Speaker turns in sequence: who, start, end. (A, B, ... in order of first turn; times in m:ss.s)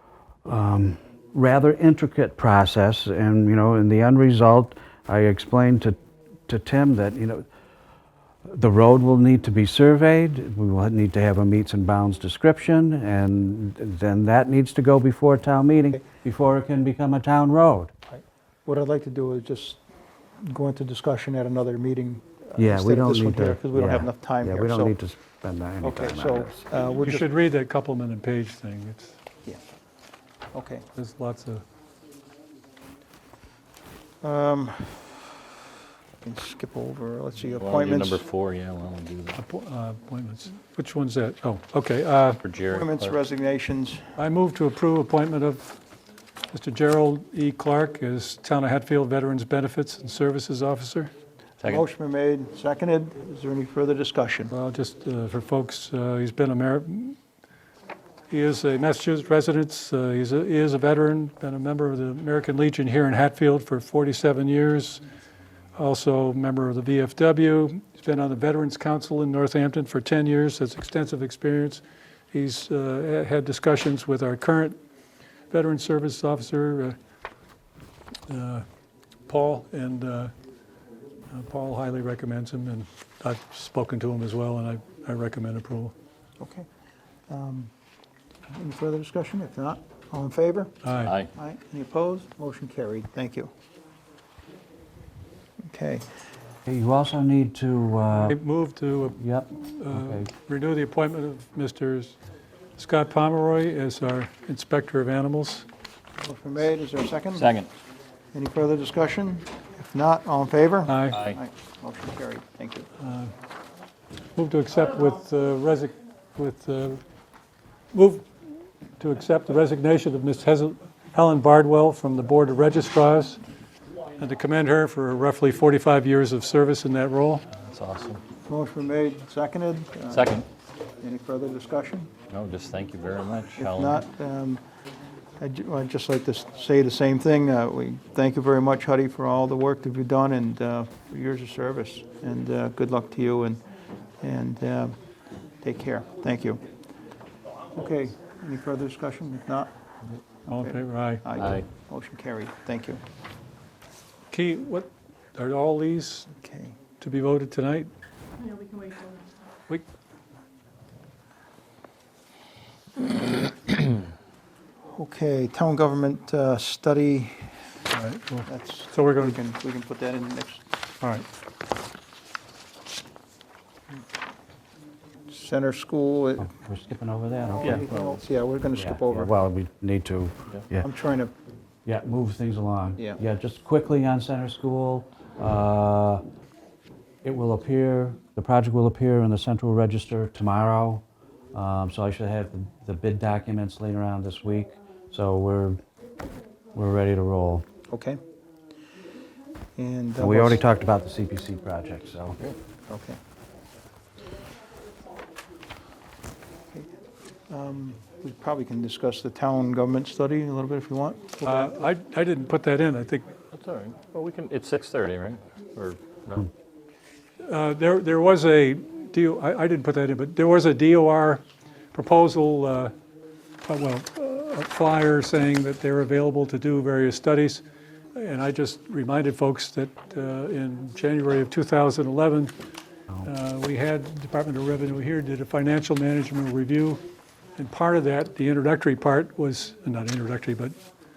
0:00.4-0:06.0 A
0:06.5-0:07.5 A
0:08.5-0:17.9 A
0:18.1-0:19.8 B
0:20.4-0:25.0 B
0:22.6-0:26.6 A
0:25.8-0:27.3 B
0:27.1-0:29.1 C
0:30.5-0:30.8 B
0:31.0-0:31.6 C
0:34.2-0:35.3 B
0:36.2-0:38.3 B
0:37.6-0:39.4 D
0:39.4-0:42.4 C
0:42.4-0:43.2 D
0:42.7-0:44.1 B
0:44.2-0:45.8 C
0:46.5-0:51.1 C
0:51.6-0:54.5 B
0:54.5-0:57.2 C
0:58.3-1:05.0 C
1:05.8-1:14.8 C
1:15.5-1:17.0 C
1:18.3-1:18.7 C
1:19.3-1:20.3 C
1:21.3-1:25.9 C
1:26.4-1:26.7 B
1:27.3-1:27.7 B
1:28.5-1:33.5 B
1:30.8-1:31.1 C
1:31.0-1:31.3 D
1:35.6-1:36.1 B
1:36.7-1:38.4 A
1:38.2-1:42.2 C
1:39.2-1:40.3 A
1:42.8-1:45.7 C
1:46.2-1:47.5 B
1:47.4-1:47.7 D
1:48.3-1:52.9 B
1:50.9-1:51.2 C
1:51.1-1:51.4 D
1:53.0-1:53.3 C
1:54.4-1:57.0 C
1:57.9-1:58.3 C
1:59.0-2:03.4 C
2:04.2-2:07.5 C
2:07.6-2:08.2 D
2:08.5-2:10.4 B
2:10.1-2:10.5 D
2:11.0-2:12.1 B
2:12.3-2:14.0 D
2:13.6-2:14.6 B
2:15.4-2:23.6 B
2:24.2-2:25.0 B
2:25.6-2:26.6 B
2:27.7-2:29.7 B
2:30.5-2:31.2 C
2:30.6-2:33.0 B
2:31.4-2:31.6 D
2:34.3-2:36.3 C
2:36.4-2:36.8 B
2:37.0-2:37.9 C
2:38.6-2:39.0 C
2:44.9-2:47.5 B
2:47.9-2:49.3 C
2:48.5-2:50.6 B
2:55.3-2:56.5 B
2:56.4-2:58.2 A
2:57.5-2:59.3 B
2:58.8-3:00.9 A
3:00.8-3:01.3 B
3:01.9-3:06.2 A
3:07.2-3:11.0 A
3:11.5-3:15.8 A
3:16.7-3:17.7 A
3:17.9-3:18.2 B
3:19.8-3:20.6 B
3:20.2-3:22.4 A
3:22.9-3:23.2 B
3:27.5-3:31.9 B
3:31.4-3:33.3 C
3:33.5-3:36.5 D
3:37.4-3:42.9 C
3:43.6-3:47.6 C
3:48.2-3:52.5 C
3:53.2-3:57.0 C
3:57.6-4:00.8 C